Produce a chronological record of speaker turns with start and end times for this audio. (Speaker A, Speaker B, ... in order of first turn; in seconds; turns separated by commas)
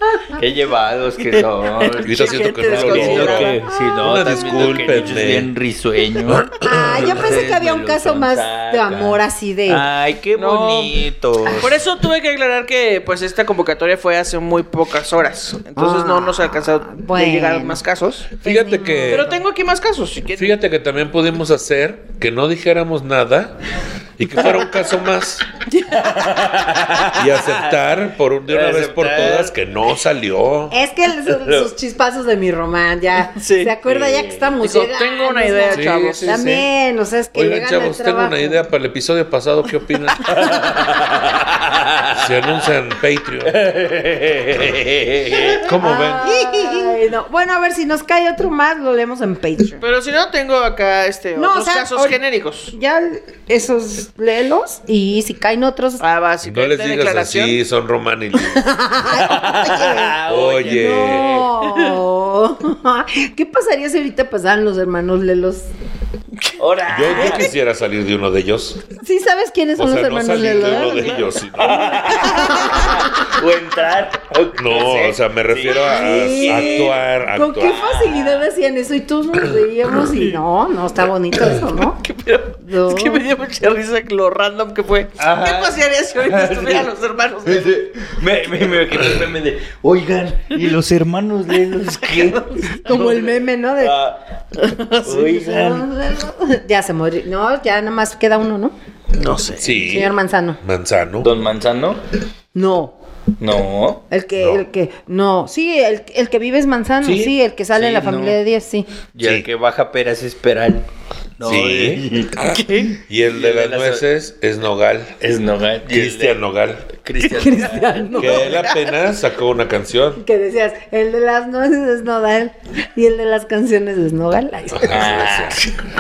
Speaker A: 0.3-11.8, Speaker B: 1.3-3.6, Speaker C: 2.0-5.5, Speaker C: 6.3-7.0, Speaker D: 6.6-9.9, Speaker B: 10.3-18.4, Speaker D: 15.8-17.8, Speaker C: 18.4-19.4, Speaker D: 18.4-19.3, Speaker B: 19.1-20.6, Speaker C: 20.4-23.6, Speaker C: 24.2-25.5, Speaker B: 25.8-26.1, Speaker A: 25.9-27.8, Speaker C: 27.1-30.8, Speaker A: 28.5-29.5, Speaker D: 30.7-38.6, Speaker A: 31.3-31.7, Speaker B: 33.4-33.7, Speaker A: 33.9-34.5, Speaker B: 34.6-36.3, Speaker C: 35.7-36.7, Speaker C: 37.3-40.6, Speaker A: 40.3-42.2, Speaker C: 42.1-43.6, Speaker A: 43.5-45.7, Speaker C: 45.6-46.4, Speaker D: 45.8-49.8, Speaker B: 46.2-46.9, Speaker B: 49.8-52.7, Speaker D: 51.4-52.2, Speaker D: 52.7-56.0, Speaker B: 56.0-57.6, Speaker C: 56.4-58.7, Speaker D: 58.5-65.7, Speaker A: 59.1-61.5, Speaker C: 60.3-61.3, Speaker B: 61.6-62.0, Speaker A: 66.6-67.5, Speaker C: 66.9-68.8, Speaker D: 69.0-71.2, Speaker C: 69.8-72.0, Speaker A: 71.6-77.0, Speaker B: 72.3-72.9, Speaker D: 72.4-73.3, Speaker C: 74.5-77.8, Speaker D: 75.9-82.0, Speaker A: 77.6-78.5, Speaker B: 81.8-87.8, Speaker D: 82.6-83.2, Speaker A: 85.2-86.9, Speaker A: 87.5-94.2, Speaker B: 92.0-92.8, Speaker D: 92.8-94.0, Speaker B: 94.6-95.2, Speaker A: 95.0-95.9, Speaker D: 95.1-98.7, Speaker B: 99.2-99.7, Speaker C: 99.6-101.3, Speaker D: 99.7-100.6, Speaker A: 101.2-102.0, Speaker D: 102.5-103.0, Speaker A: 103.4-104.0, Speaker D: 104.1-108.9, Speaker C: 104.4-104.6, Speaker C: 107.0-107.3, Speaker A: 107.8-108.4, Speaker A: 109.1-110.9, Speaker C: 109.2-109.5, Speaker A: 111.4-112.5, Speaker C: 111.4-115.2, Speaker B: 112.4-113.0, Speaker A: 113.2-114.0, Speaker A: 115.2-116.4, Speaker C: 115.9-116.9, Speaker A: 116.9-118.6, Speaker D: 117.3-118.6, Speaker C: 118.2-120.2, Speaker D: 120.2-125.2, Speaker C: 124.7-125.6, Speaker A: 124.9-125.6